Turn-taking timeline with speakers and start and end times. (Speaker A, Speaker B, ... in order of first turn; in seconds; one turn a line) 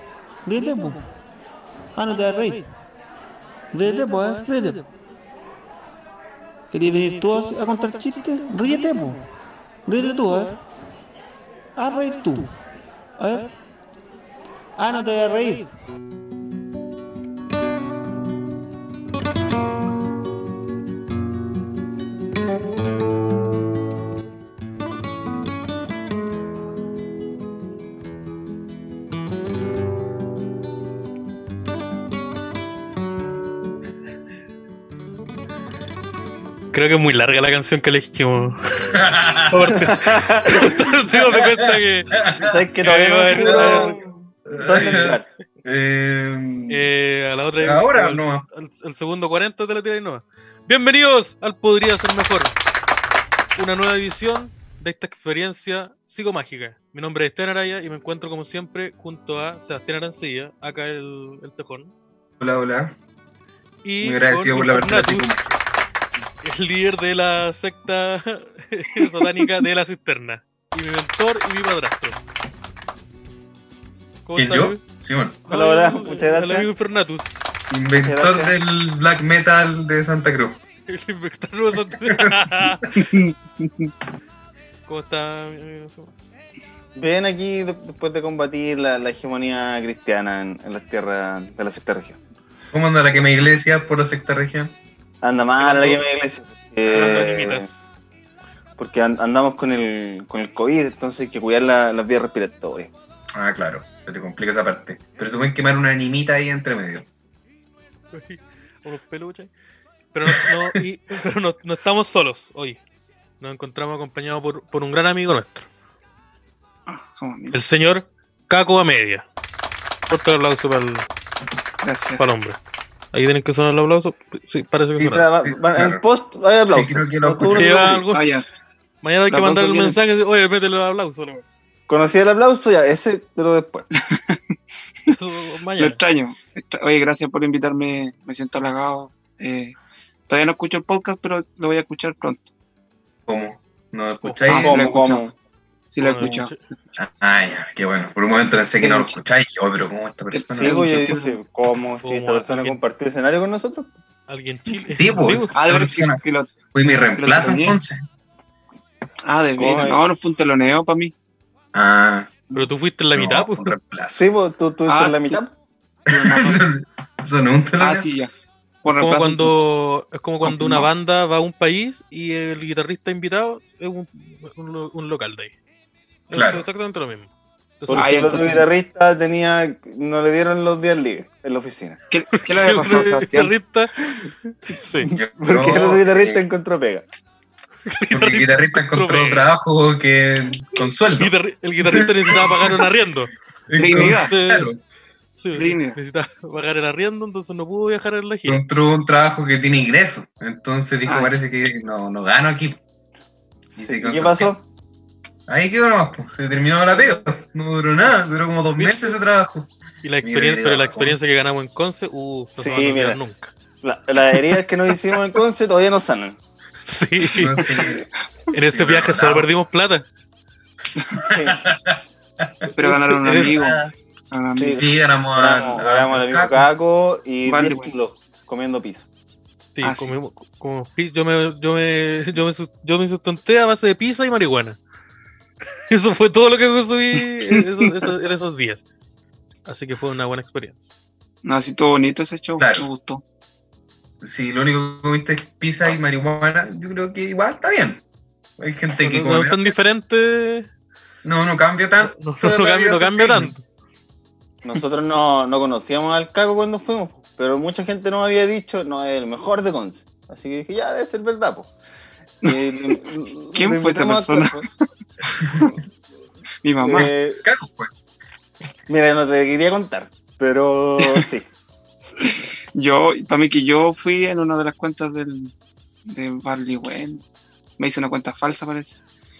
Speaker A: 0.5-1.0
Speaker A: 1.9-2.6
Speaker A: 3.7-4.8
Speaker A: 6.7-9.2
Speaker A: 9.9-10.6
Speaker A: 11.8-12.5
Speaker A: 13.2-13.5
Speaker A: 14.8-15.7
Speaker B: 36.7-39.0
Speaker C: 38.9-39.8
Speaker B: 39.5-42.2
Speaker D: 39.7-40.7
Speaker C: 41.1-42.5
Speaker D: 42.4-45.2
Speaker B: 42.8-44.0
Speaker C: 43.3-46.9
Speaker B: 44.7-45.0
Speaker B: 46.7-52.6
Speaker C: 47.6-48.5
Speaker B: 53.5-61.9
Speaker C: 62.4-63.0
Speaker B: 63.8-65.3
Speaker C: 64.0-65.5
Speaker B: 66.4-72.2
Speaker B: 74.2-74.8
Speaker C: 74.3-75.4
Speaker B: 75.5-77.3
Speaker D: 75.5-76.7
Speaker C: 77.7-80.6
Speaker D: 78.0-78.5
Speaker B: 80.9-82.9
Speaker C: 82.1-82.8
Speaker E: 82.9-83.9
Speaker B: 84.9-86.1
Speaker D: 87.0-92.2
Speaker C: 92.7-94.7
Speaker D: 95.2-97.7
Speaker B: 95.6-96.0
Speaker B: 96.9-97.8
Speaker D: 98.8-102.9
Speaker C: 103.3-107.1
Speaker B: 108.1-109.5
Speaker B: 110.1-112.8
Speaker B: 113.4-115.7
Speaker E: 116.9-117.6
Speaker B: 117.5-119.2
Speaker B: 120.1-121.1
Speaker E: 121.8-122.2
Speaker B: 122.2-122.6
Speaker B: 123.1-125.3
Speaker C: 125.0-126.0
Speaker D: 125.1-128.0
Speaker C: 126.7-127.9
Speaker B: 127.5-128.2
Speaker E: 128.1-128.4
Speaker B: 129.0-131.4
Speaker D: 129.3-130.0
Speaker D: 131.9-133.9
Speaker E: 134.0-134.4
Speaker B: 135.1-136.0
Speaker E: 135.8-139.7
Speaker E: 140.3-142.5
Speaker C: 143.3-144.8
Speaker E: 144.5-145.2
Speaker D: 144.5-145.3
Speaker E: 145.9-146.6
Speaker B: 146.0-146.6
Speaker C: 147.0-151.1
Speaker E: 148.8-149.1
Speaker E: 150.3-151.4
Speaker D: 150.6-153.9
Speaker B: 152.0-152.8
Speaker B: 154.3-155.5
Speaker C: 154.9-156.2
Speaker E: 155.5-156.5
Speaker C: 156.7-158.0
Speaker E: 157.2-157.8
Speaker E: 159.3-161.1
Speaker D: 159.6-160.0
Speaker C: 161.7-164.2
Speaker B: 162.5-163.7
Speaker D: 164.1-165.5
Speaker E: 164.9-165.4
Speaker E: 166.1-166.7
Speaker C: 166.1-168.1
Speaker E: 167.8-168.3
Speaker E: 168.8-169.6
Speaker B: 168.9-175.5
Speaker E: 170.4-170.9
Speaker B: 176.3-177.3
Speaker C: 176.3-176.6
Speaker B: 177.8-178.7
Speaker D: 177.9-182.0
Speaker E: 177.9-178.6
Speaker E: 182.1-183.5
Speaker B: 182.3-183.9
Speaker B: 184.7-185.1
Speaker C: 185.1-186.4
Speaker D: 185.4-187.0
Speaker B: 187.9-189.5
Speaker C: 188.1-192.8
Speaker B: 191.2-193.3
Speaker C: 193.7-194.8
Speaker E: 193.8-194.3
Speaker B: 193.9-194.7
Speaker B: 195.3-198.6
Speaker E: 195.5-196.0
Speaker C: 198.4-202.8
Speaker E: 201.1-201.3
Speaker C: 203.8-204.5
Speaker D: 203.8-204.6
Speaker C: 205.5-209.7
Speaker B: 208.8-209.2
Speaker B: 210.0-213.5
Speaker C: 210.2-211.2
Speaker D: 212.6-213.2
Speaker D: 213.8-216.4
Speaker B: 216.8-217.6
Speaker C: 217.3-218.1
Speaker B: 218.5-220.1
Speaker C: 218.7-219.5
Speaker C: 221.2-222.7
Speaker D: 221.2-221.6
Speaker B: 222.7-223.9
Speaker E: 222.8-223.8
Speaker C: 223.2-223.8
Speaker E: 224.3-224.8
Speaker D: 224.5-229.0
Speaker C: 224.8-226.7
Speaker E: 227.4-227.9
Speaker B: 229.7-234.8
Speaker E: 229.8-230.1
Speaker B: 235.9-238.8
Speaker B: 239.6-240.9
Speaker E: 241.4-243.2
Speaker C: 242.6-242.9
Speaker C: 244.2-248.0
Speaker C: 248.6-249.7
Speaker B: 249.0-250.7
Speaker C: 251.2-253.5
Speaker B: 252.0-253.6
Speaker D: 254.6-261.7
Speaker E: 262.4-264.7
Speaker D: 262.5-264.7
Speaker E: 266.6-267.1
Speaker D: 266.8-267.4
Speaker C: 267.4-267.9
Speaker D: 268.9-271.5
Speaker E: 271.0-271.2
Speaker E: 272.2-275.5
Speaker E: 276.1-277.2
Speaker E: 277.8-279.0